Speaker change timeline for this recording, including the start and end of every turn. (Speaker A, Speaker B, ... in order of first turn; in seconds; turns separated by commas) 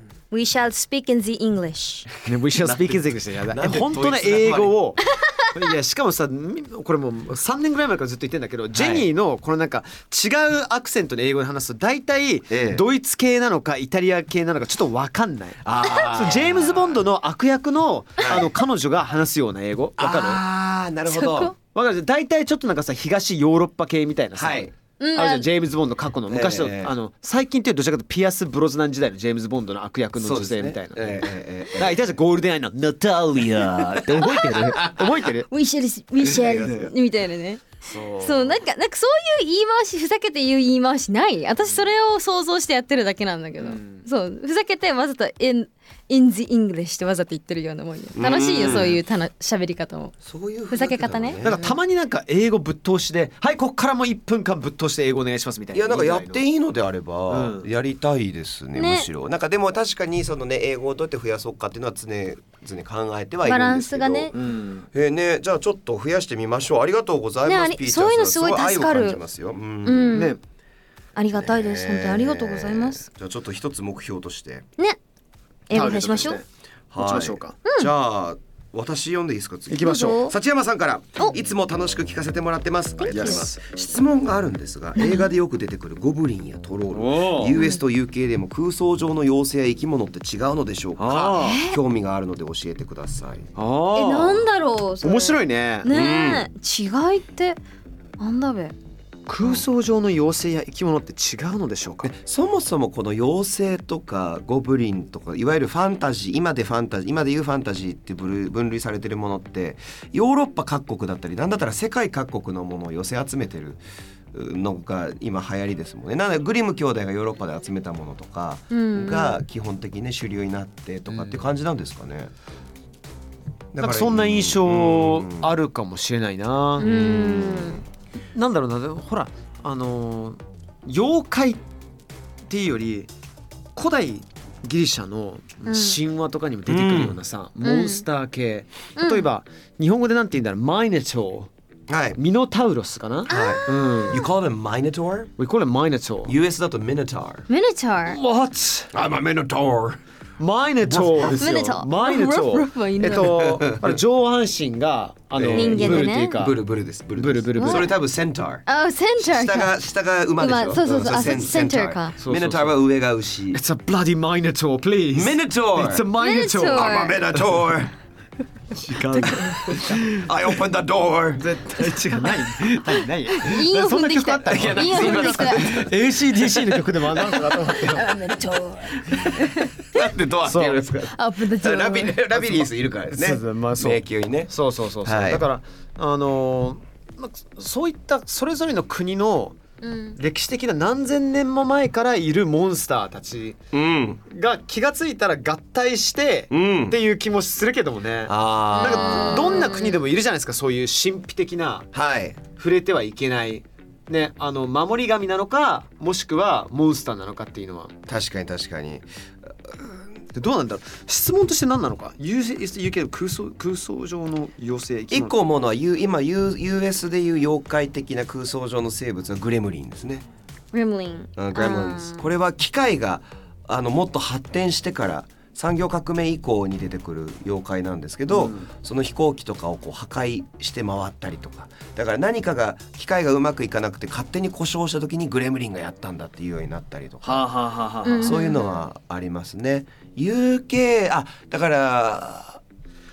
Speaker A: 0.3-2.1, Speaker B: 2.2-20.4, Speaker C: 2.5-4.8, Speaker A: 5.1-5.4, Speaker C: 8.7-9.1, Speaker C: 12.5-12.8, Speaker C: 15.6-17.0, Speaker C: 18.2-18.5, Speaker C: 20.0-21.5, Speaker A: 21.1-21.5, Speaker B: 21.7-35.5, Speaker C: 24.4-24.7, Speaker A: 25.0-25.5, Speaker C: 26.3-26.9, Speaker C: 30.2-32.1, Speaker C: 33.8-35.0, Speaker A: 35.5-50.1, Speaker C: 36.2-36.9, Speaker B: 37.8-38.6, Speaker B: 43.6-44.0, Speaker C: 48.1-49.0, Speaker C: 50.2-51.6, Speaker A: 50.7-51.7, Speaker B: 51.4-56.4, Speaker C: 55.7-64.3, Speaker B: 57.3-57.7, Speaker A: 58.7-59.1, Speaker A: 63.4-64.3, Speaker B: 64.3-64.9, Speaker C: 64.9-70.3, Speaker A: 67.4-69.2, Speaker A: 69.8-70.3, Speaker B: 70.1-70.4, Speaker A: 71.2-73.0, Speaker C: 71.3-74.7, Speaker A: 75.7-76.4, Speaker B: 75.7-76.5, Speaker C: 76.9-93.5, Speaker B: 77.0-77.6, Speaker A: 77.7-77.9, Speaker B: 79.7-80.2, Speaker A: 79.8-80.3, Speaker A: 83.0-83.5, Speaker B: 83.0-83.5, Speaker A: 85.0-85.3, Speaker B: 86.9-87.6, Speaker A: 87.5-87.8, Speaker B: 91.0-91.6, Speaker A: 91.4-91.8, Speaker B: 93.5-94.5, Speaker A: 93.9-97.6, Speaker B: 95.0-95.9, Speaker C: 95.9-96.5, Speaker A: 98.2-98.7, Speaker B: 99.3-102.1, Speaker C: 102.0-113.8, Speaker C: 114.3-122.3, Speaker A: 118.7-119.4, Speaker B: 121.1-121.4, Speaker C: 123.7-125.5, Speaker B: 123.8-126.9, Speaker A: 126.8-127.8, Speaker C: 126.8-127.8, Speaker B: 128.3-131.6, Speaker B: 132.5-133.1, Speaker B: 133.7-141.5, Speaker A: 135.7-136.0, Speaker C: 136.7-137.2, Speaker A: 137.6-138.0, Speaker A: 139.0-139.3, Speaker C: 141.9-142.2, Speaker B: 142.2-144.2, Speaker A: 143.3-144.2, Speaker C: 143.3-145.3, Speaker B: 145.4-146.3, Speaker C: 146.2-147.5, Speaker A: 147.5-148.2, Speaker B: 148.1-148.9, Speaker C: 148.9-150.0, Speaker B: 150.4-156.6, Speaker C: 150.9-151.4, Speaker A: 151.3-153.4, Speaker C: 153.1-154.0, Speaker C: 155.3-158.6, Speaker A: 155.5-156.3, Speaker B: 157.2-157.9, Speaker A: 157.6-157.9, Speaker A: 158.7-159.8, Speaker C: 159.2-163.6, Speaker A: 160.4-162.1, Speaker B: 162.2-162.8, Speaker B: 163.5-167.0, Speaker C: 165.1-166.1, Speaker A: 166.2-167.2, Speaker C: 166.7-167.9, Speaker B: 168.7-170.3, Speaker C: 169.3-171.5, Speaker B: 171.4-178.1, Speaker A: 173.3-175.7, Speaker C: 174.5-175.9, Speaker A: 177.3-179.9, Speaker B: 179.1-179.3, Speaker C: 179.4-185.4, Speaker B: 180.4-180.8, Speaker A: 181.0-182.2, Speaker B: 182.3-189.6, Speaker A: 189.8-190.2, Speaker B: 190.1-193.6, Speaker C: 193.7-194.2, Speaker B: 194.3-201.9, Speaker C: 196.5-197.0, Speaker C: 198.2-199.6, Speaker A: 198.7-200.0, Speaker C: 201.9-202.4, Speaker B: 202.5-207.9, Speaker C: 208.1-210.0, Speaker B: 210.3-215.3, Speaker C: 215.1-220.2, Speaker A: 220.7-222.2, Speaker C: 221.4-237.4, Speaker B: 228.3-228.7, Speaker B: 237.2-238.4, Speaker A: 238.0-238.8, Speaker C: 238.2-242.6